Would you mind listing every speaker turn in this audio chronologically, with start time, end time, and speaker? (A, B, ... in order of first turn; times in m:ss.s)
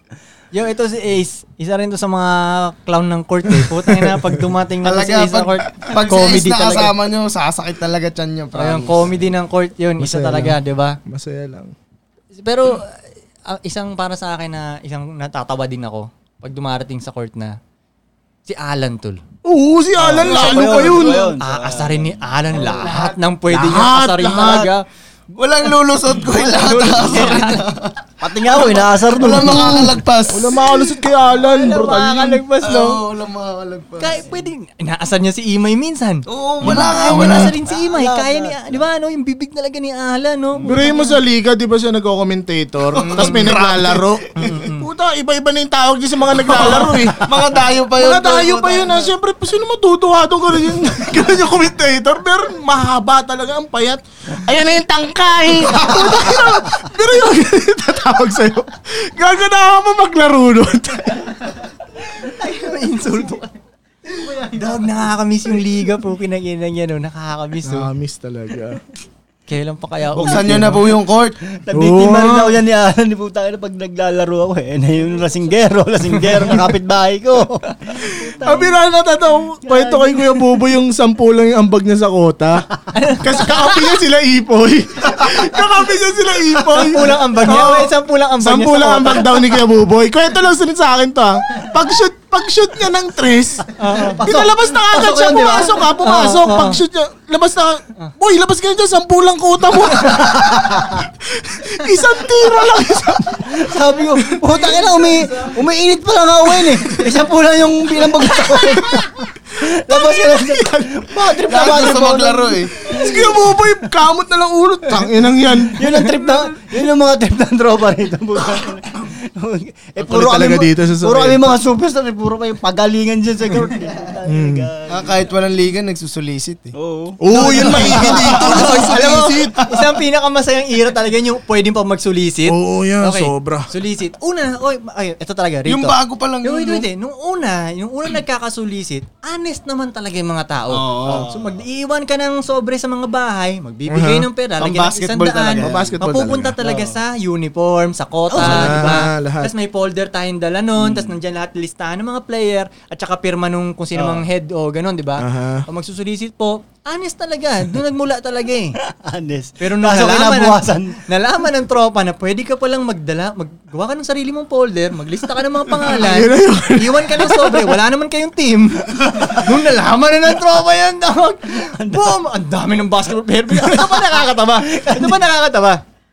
0:00.5-0:07.0 A
0:03.5-0:04.4 B
0:04.8-0:09.2 C
0:08.6-0:11.0 A
0:10.0-0:11.7 B
0:12.4-0:17.6 A
0:18.5-0:19.2 A
0:19.4-0:21.3 B
0:20.0-0:23.0 D
0:20.2-0:24.9 A
0:23.5-0:24.7 B
0:25.3-0:30.9 C
0:26.3-0:27.7 A
0:28.2-0:30.0 D
0:29.5-0:32.4 B
0:31.3-0:33.0 A
0:32.6-0:34.2 C
0:34.0-0:40.9 A
0:36.3-0:37.5 C
0:36.6-0:38.8 D
0:37.1-0:37.5 B
0:40.6-0:47.2 B
0:42.9-0:44.6 C
0:43.0-0:43.5 A
0:44.4-0:44.9 A
0:46.5-0:49.1 C
0:48.0-1:01.6 B
1:02.0-1:03.5 A
1:04.3-1:07.9 A
1:07.6-1:08.8 B
1:09.5-1:10.9 A
1:10.1-1:11.4 C
1:10.3-1:10.8 B
1:11.5-1:18.8 D
1:11.7-1:12.6 B
1:18.4-1:22.6 B
1:19.6-1:20.4 D
1:22.9-1:24.0 A
1:23.2-1:43.7 B
1:26.7-1:29.5 A
1:33.8-1:34.2 A
1:34.1-1:35.8 D
1:35.8-1:36.8 A
1:43.3-1:53.3 D
1:48.5-1:49.1 B
1:49.6-1:51.1 B
1:51.5-1:52.8 C
1:52.9-1:56.4 B
1:55.8-2:05.1 D
2:00.0-2:01.6 B
2:04.3-2:04.7 B
2:04.9-2:06.8 C
2:06.7-2:08.2 D
2:07.2-2:09.6 B
2:07.3-2:09.9 C
2:07.9-2:38.8 A
2:12.5-2:13.7 B
2:15.7-2:16.9 C
2:20.7-2:21.3 C
2:21.0-2:21.6 D
2:23.9-2:24.3 B
2:24.6-2:26.0 C
2:25.6-2:26.6 B
2:26.6-2:27.0 D
2:28.4-2:29.5 B
2:30.8-2:31.1 D
2:34.0-2:34.2 D
2:35.2-2:35.7 B
2:38.8-2:41.0 D
2:39.6-2:55.8 A
2:45.8-2:47.7 B
2:51.7-2:52.2 D
2:53.6-2:55.3 D